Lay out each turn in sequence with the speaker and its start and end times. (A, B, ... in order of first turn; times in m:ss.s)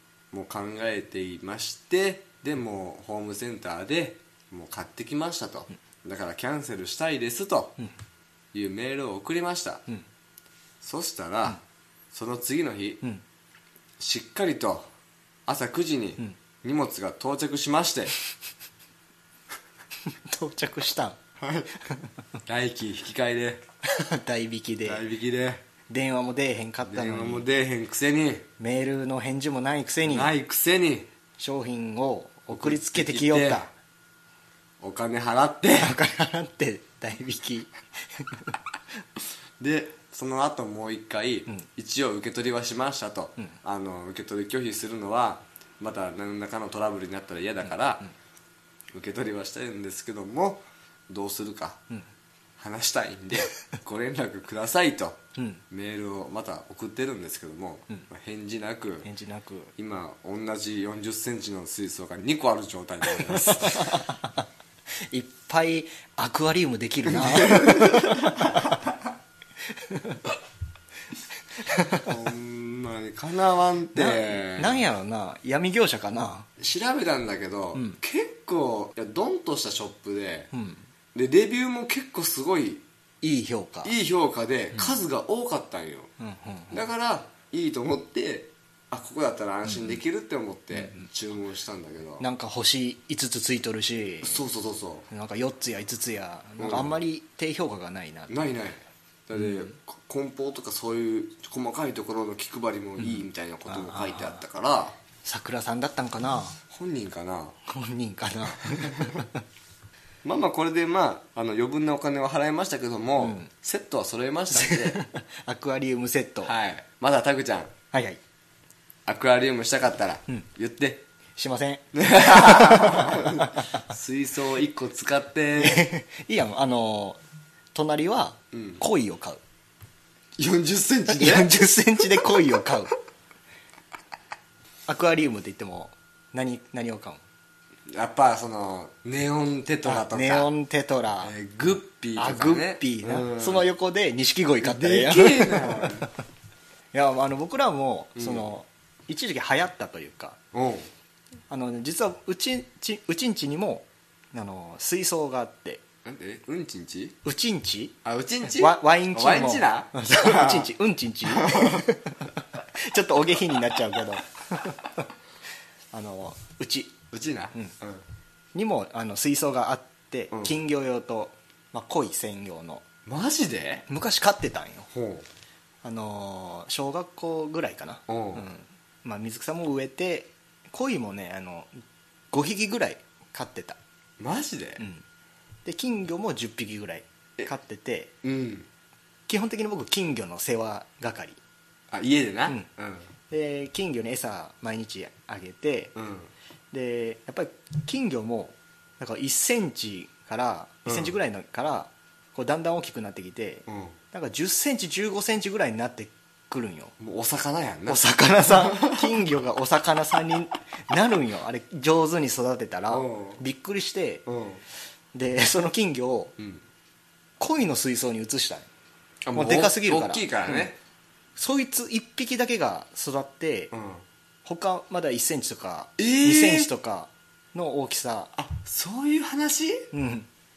0:00.3-0:07.8 A
0:08.5-0:09.8 A
0:10.8-0:11.6 A
0:12.1-0:13.0 A
0:14.0-0:14.9 A
0:15.5-0:18.1 A
0:20.3-0:21.2 B
0:21.4-0:21.7 A
0:22.4-0:23.6 A
0:23.9-0:25.0 B
0:24.8-0:25.6 A
0:25.9-0:27.4 B
0:26.8-0:28.5 A
0:28.6-0:30.3 B
0:30.0-0:31.1 A
0:31.4-0:33.7 B
0:32.5-0:33.6 A
0:34.8-0:36.0 A
0:35.8-0:38.5 B
0:39.6-0:48.1 A
0:48.9-0:51.8 A
0:52.6-0:59.1 A
0:55.4-0:55.6 B
0:59.0-0:59.7 B
0:59.8-1:03.9 A
1:03.2-1:04.4 B
1:05.1-1:08.8 B
1:07.1-1:08.7 A
1:09.7-1:10.2 B
1:11.6-1:12.1 B
1:12.0-1:14.8 A
1:13.9-1:16.5 B
1:16.6-1:20.5 A
1:20.5-1:20.8 B
1:21.1-1:22.8 A
1:23.2-1:23.9 B
1:23.8-1:26.1 A
1:26.2-1:26.8 B
1:26.7-1:32.2 A
1:30.7-1:31.0 B
1:32.2-1:34.4 B
1:34.2-1:35.1 A
1:35.1-1:38.3 B
1:36.6-1:37.0 A
1:38.3-1:45.0 A
1:39.4-1:39.7 B
1:43.7-1:44.4 B
1:45.2-1:46.6 B
1:46.7-1:47.6 A
1:47.7-1:49.4 B
1:48.7-1:49.2 A
1:50.2-1:55.0 A
1:53.2-1:53.5 B
1:54.5-1:56.5 B
1:56.4-1:57.7 A
1:57.9-1:58.2 B
1:59.0-2:01.0 A
2:01.4-2:03.8 B
2:01.9-2:05.8 A
2:05.6-2:07.2 B
2:07.7-2:09.4 B
2:08.5-2:08.8 A
2:10.4-2:11.7 A
2:11.1-2:12.9 B
2:14.9-2:17.2 B
2:17.9-2:20.5 A
2:19.8-2:21.3 B
2:21.2-2:23.7 A
2:22.2-2:26.1 B
2:24.6-2:26.1 A
2:26.9-2:30.4 B
2:28.2-2:28.5 A
2:30.5-2:30.9 A
2:31.5-2:35.8 B
2:36.0-2:37.2 A
2:37.2-2:45.0 B
2:38.0-2:40.7 A
2:41.3-2:41.9 A
2:45.9-2:46.9 B
2:47.1-2:48.0 A
2:48.5-2:52.8 B
2:53.0-2:53.8 A
2:53.9-2:54.9 B
2:54.9-2:55.2 A
2:55.8-3:01.7 B
2:58.1-2:58.5 A
3:02.3-3:03.8 B
3:04.2-3:04.8 A
3:05.6-3:08.1 B
3:08.2-3:08.7 A
3:09.3-3:11.4 B
3:11.9-3:13.1 A
3:13.3-3:15.9 B
3:16.0-3:16.3 A
3:16.7-3:26.9 B
3:20.8-3:21.1 A
3:23.7-3:24.0 A
3:27.0-3:29.2 A
3:27.9-3:34.2 B
3:32.9-3:33.4 A
3:34.2-3:34.6 A
3:35.1-3:36.4 B
3:36.4-3:36.6 A
3:37.4-3:38.7 B
3:39.2-3:40.8 A
3:39.3-3:40.7 B
3:41.4-3:43.7 B
3:43.7-3:44.0 A
3:44.4-3:48.3 B
3:46.0-3:46.7 A
3:48.4-3:49.9 A
3:49.9-3:50.3 B